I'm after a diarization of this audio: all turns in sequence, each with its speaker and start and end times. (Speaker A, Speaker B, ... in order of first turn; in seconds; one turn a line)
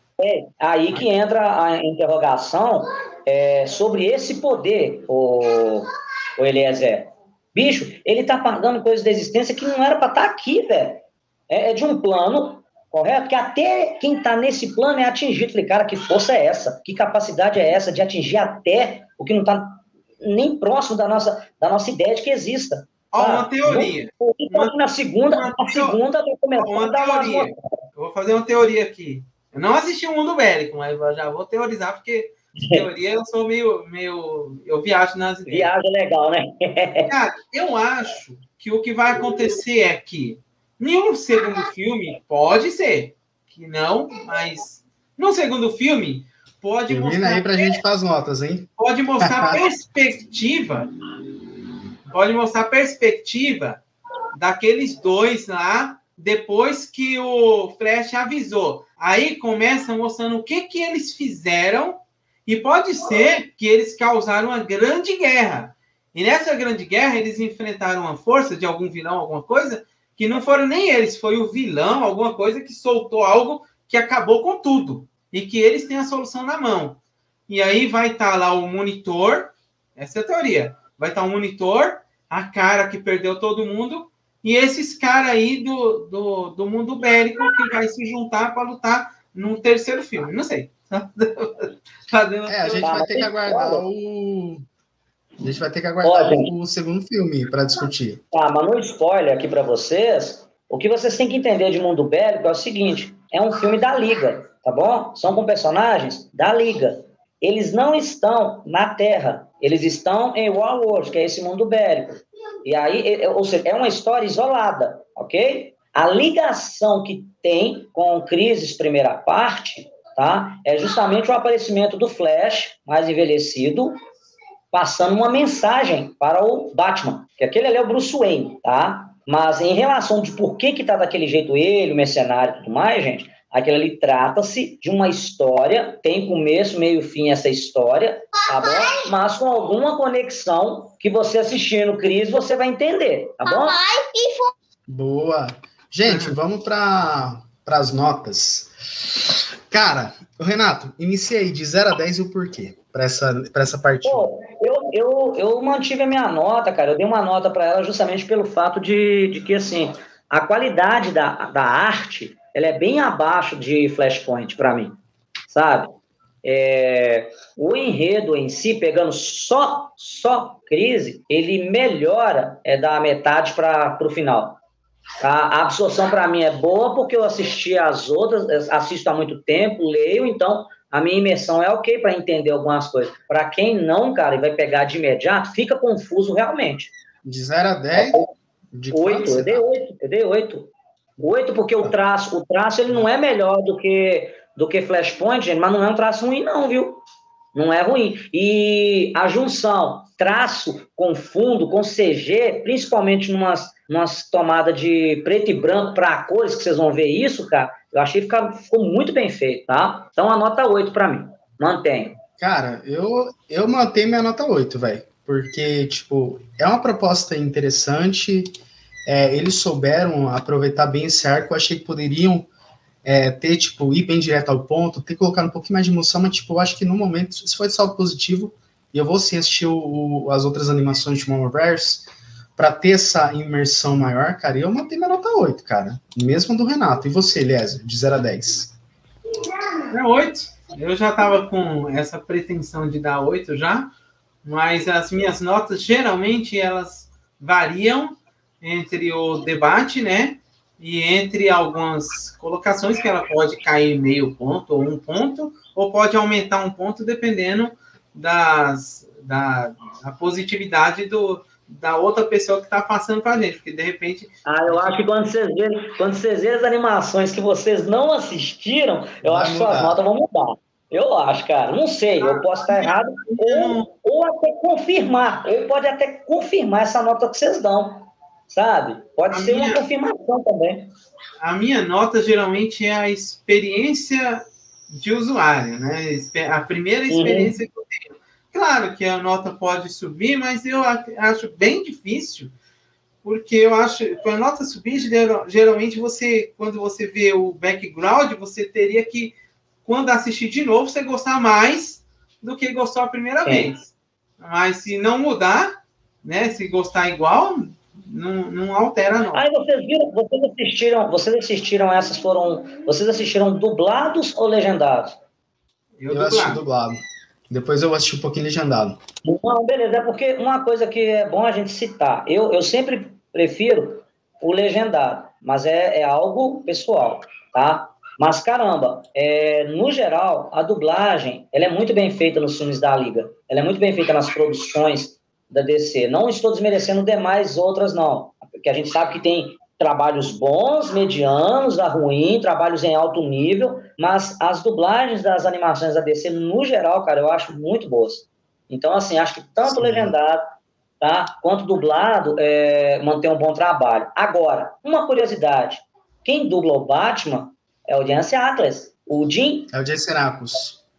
Speaker A: 0.2-27.5
Speaker B: 23.1-24.7
Speaker B: 25.2-26.0
Speaker B: 26.6-35.7
Speaker A: 32.6-32.9
Speaker A: 35.5-37.1
Speaker B: 37.0-47.8
Speaker C: 46.9-48.7
Speaker B: 48.8-50.9
Speaker C: 49.2-49.6
Speaker B: 52.0-53.8
Speaker B: 54.3-93.0
Speaker C: 92.5-94.6
Speaker A: 92.8-93.8
Speaker C: 95.4-98.2
Speaker A: 96.0-96.5
Speaker A: 98.3-123.9
Speaker A: 124.7-144.1
Speaker C: 144.9-148.7
Speaker B: 146.0-146.3
Speaker C: 149.7-154.3
Speaker A: 154.0-164.9
Speaker A: 165.5-174.6
Speaker A: 175.2-186.9
Speaker C: 187.2-188.2
Speaker A: 187.9-188.2
Speaker C: 188.7-189.6
Speaker A: 188.9-197.0
Speaker A: 197.5-212.2
Speaker C: 212.4-218.5
Speaker C: 219.1-222.5
Speaker C: 223.0-238.7
Speaker B: 239.9-243.9
Speaker B: 244.4-265.0
Speaker A: 264.4-280.9
Speaker C: 269.2-270.0
Speaker B: 272.2-273.9
Speaker B: 279.3-279.8
Speaker B: 281.4-292.5
Speaker A: 287.1-287.6
Speaker B: 293.2-305.7
Speaker B: 306.2-309.4
Speaker A: 309.3-315.2
Speaker B: 316.0-316.6
Speaker C: 316.1-317.0
Speaker C: 317.5-319.0
Speaker A: 319.2-350.4
Speaker C: 349.6-350.1
Speaker A: 351.0-359.7
Speaker C: 359.7-360.8